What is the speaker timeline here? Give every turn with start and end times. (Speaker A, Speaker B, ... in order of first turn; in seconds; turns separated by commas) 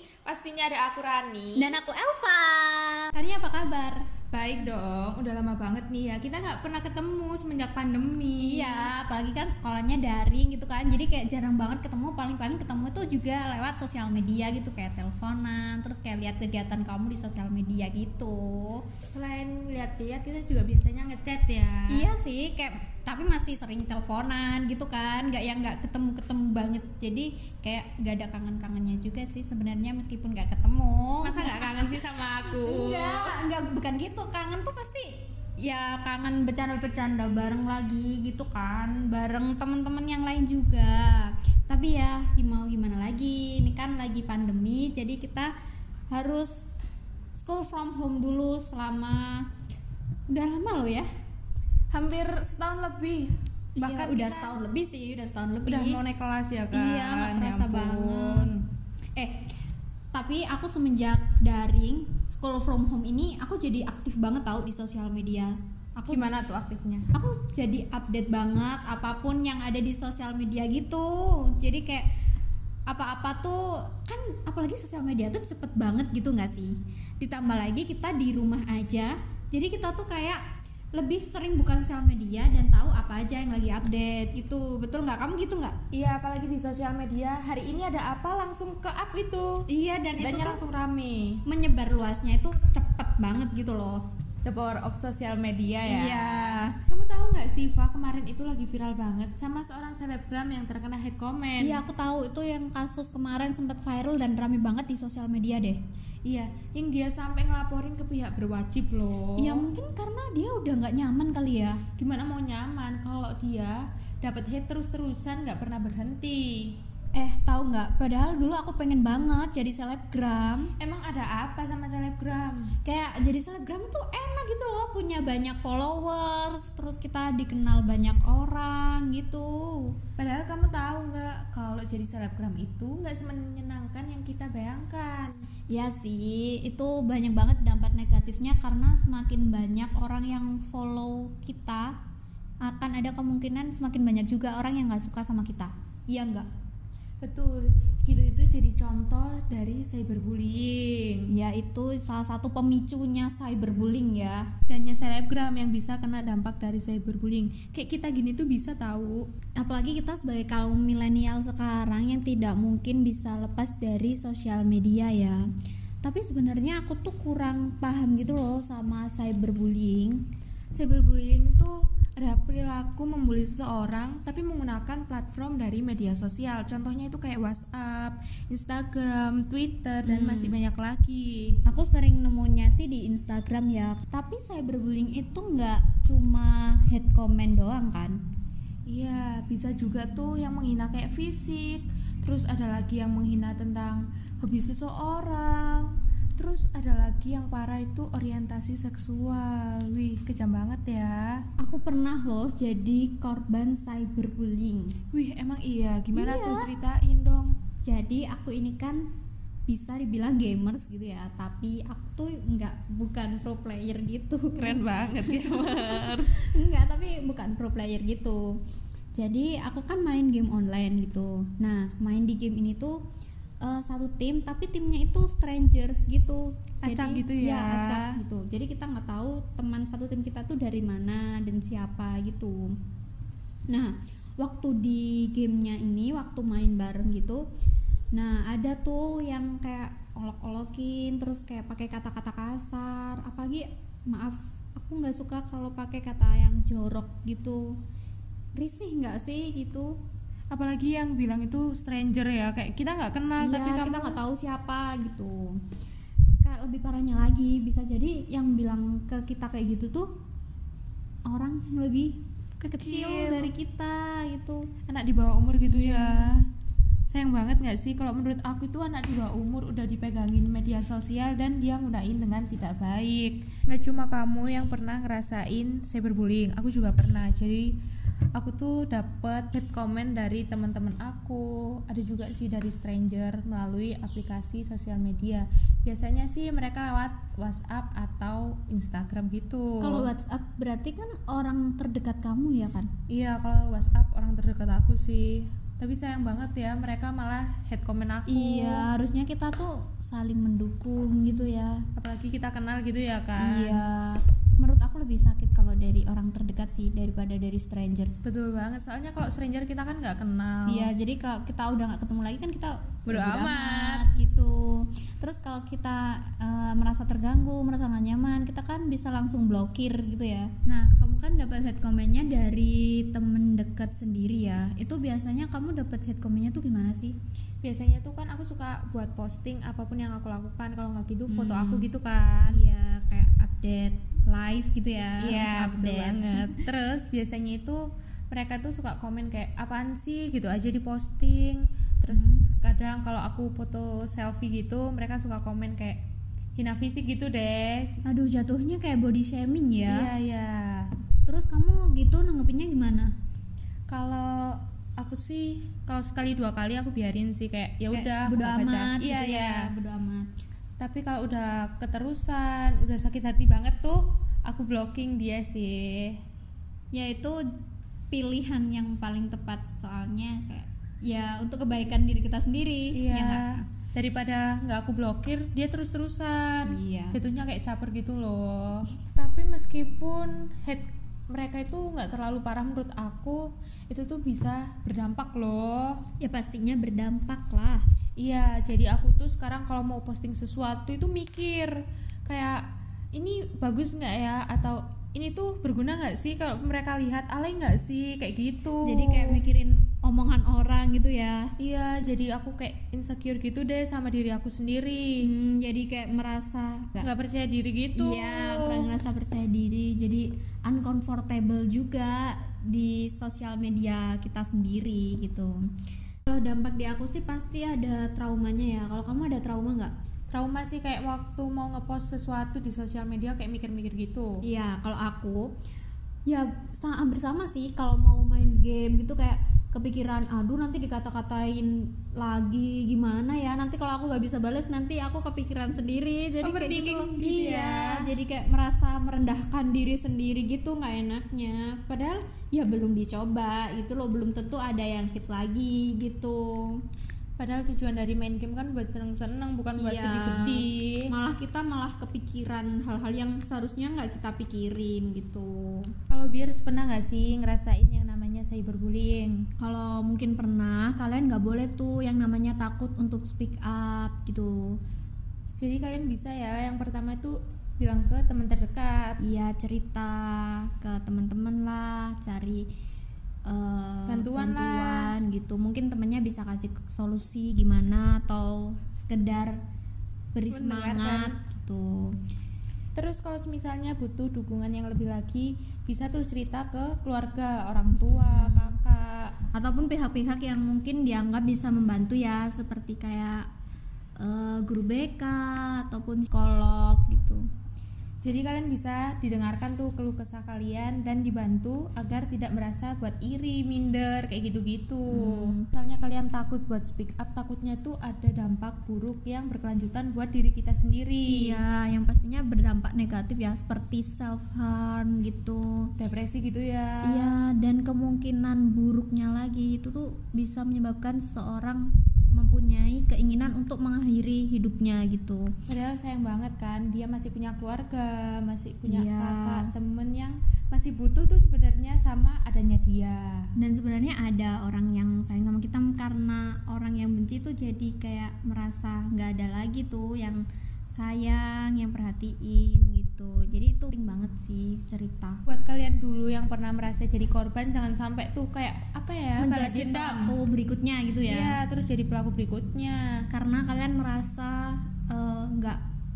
Speaker A: 0.2-1.8, Speaker B: 1.6-4.0, Speaker A: 4.3-8.9, Speaker B: 8.4-18.9, Speaker A: 19.0-22.1, Speaker B: 21.9-45.5, Speaker A: 31.2-33.5, Speaker B: 46.1-46.8, Speaker B: 47.3-49.5, Speaker B: 50.3-51.1, Speaker A: 51.9-54.6, Speaker B: 53.8-56.0, Speaker A: 55.6-58.6, Speaker B: 56.7-58.6, Speaker B: 59.2-59.5, Speaker B: 60.1-66.3, Speaker A: 66.1-67.1, Speaker B: 67.1-72.1, Speaker B: 72.9-80.4, Speaker B: 80.9-85.8, Speaker A: 85.9-91.4, Speaker B: 89.7-90.6, Speaker B: 91.5-94.0, Speaker A: 94.4-101.8, Speaker B: 95.8-96.8, Speaker B: 101.6-105.8, Speaker A: 106.2-109.7, Speaker B: 109.4-111.8, Speaker A: 112.0-116.8, Speaker B: 117.1-120.7, Speaker A: 120.8-122.8, Speaker B: 122.8-130.0, Speaker A: 130.2-135.4, Speaker B: 135.7-142.0, Speaker B: 142.6-146.5, Speaker A: 147.2-151.4, Speaker B: 151.3-154.5, Speaker A: 154.7-159.3, Speaker B: 159.6-165.5, Speaker B: 166.0-170.2, Speaker A: 170.7-181.6, Speaker B: 180.0-180.6, Speaker B: 181.7-188.2, Speaker A: 188.9-201.5, Speaker B: 201.6-205.0, Speaker A: 205.1-207.5, Speaker B: 206.1-206.7, Speaker B: 207.8-209.1, Speaker B: 209.7-218.6, Speaker A: 214.5-216.5, Speaker B: 219.1-223.0, Speaker B: 223.6-232.8, Speaker A: 226.8-228.2, Speaker B: 233.7-237.4, Speaker B: 238.1-247.8, Speaker B: 248.6-249.9, Speaker A: 250.5-254.2, Speaker B: 253.4-255.6, Speaker B: 256.4-260.1, Speaker B: 261.3-264.7, Speaker A: 262.8-263.5, Speaker A: 264.9-266.5, Speaker B: 265.6-266.4, Speaker A: 267.1-277.8, Speaker A: 278.4-290.1, Speaker B: 289.8-292.9, Speaker A: 293.1-298.9, Speaker B: 298.3-301.9, Speaker A: 302.0-303.8, Speaker B: 303.4-308.2, Speaker A: 308.2-310.9, Speaker B: 310.7-327.2, Speaker A: 313.1-314.1, Speaker A: 327.6-332.6, Speaker B: 331.3-331.9, Speaker B: 332.5-336.6, Speaker A: 335.2-346.0, Speaker B: 342.1-342.4, Speaker A: 346.6-348.0, Speaker B: 348.1-350.1, Speaker A: 349.9-350.9, Speaker B: 351.3-353.1, Speaker A: 353.9-359.7, Speaker B: 357.9-360.3, Speaker A: 360.8-366.2, Speaker B: 366.9-367.4, Speaker B: 368.1-373.6, Speaker A: 372.9-386.0, Speaker B: 376.6-377.2, Speaker B: 386.2-387.9, Speaker A: 388.2-399.4, Speaker B: 398.8-401.5, Speaker A: 401.6-405.3, Speaker B: 405.2-407.1, Speaker A: 407.0-408.9, Speaker B: 407.9-415.6, Speaker B: 416.3-419.9, Speaker A: 420.3-424.4, Speaker B: 424.4-425.5, Speaker B: 426.3-446.8, Speaker A: 436.4-438.1, Speaker A: 447.4-451.1, Speaker B: 449.8-455.9, Speaker A: 456.1-459.5, Speaker B: 459.6-464.8, Speaker A: 465.6-469.2, Speaker B: 469.2-472.7, Speaker B: 473.5-479.6, Speaker A: 474.1-475.2, Speaker B: 480.3-482.2, Speaker A: 480.5-481.4, Speaker A: 482.9-489.4, Speaker B: 488.0-488.8, Speaker B: 489.5-493.5, Speaker B: 494.2-497.5, Speaker A: 498.2-511.6, Speaker B: 505.1-505.7, Speaker B: 511.3-515.9, Speaker A: 516.0-517.5, Speaker B: 517.0-525.5, Speaker A: 525.7-533.5, Speaker B: 528.9-529.7, Speaker B: 533.6-545.4, Speaker A: 545.5-550.4, Speaker B: 549.4-551.6, Speaker A: 551.3-553.3, Speaker B: 553.3-555.8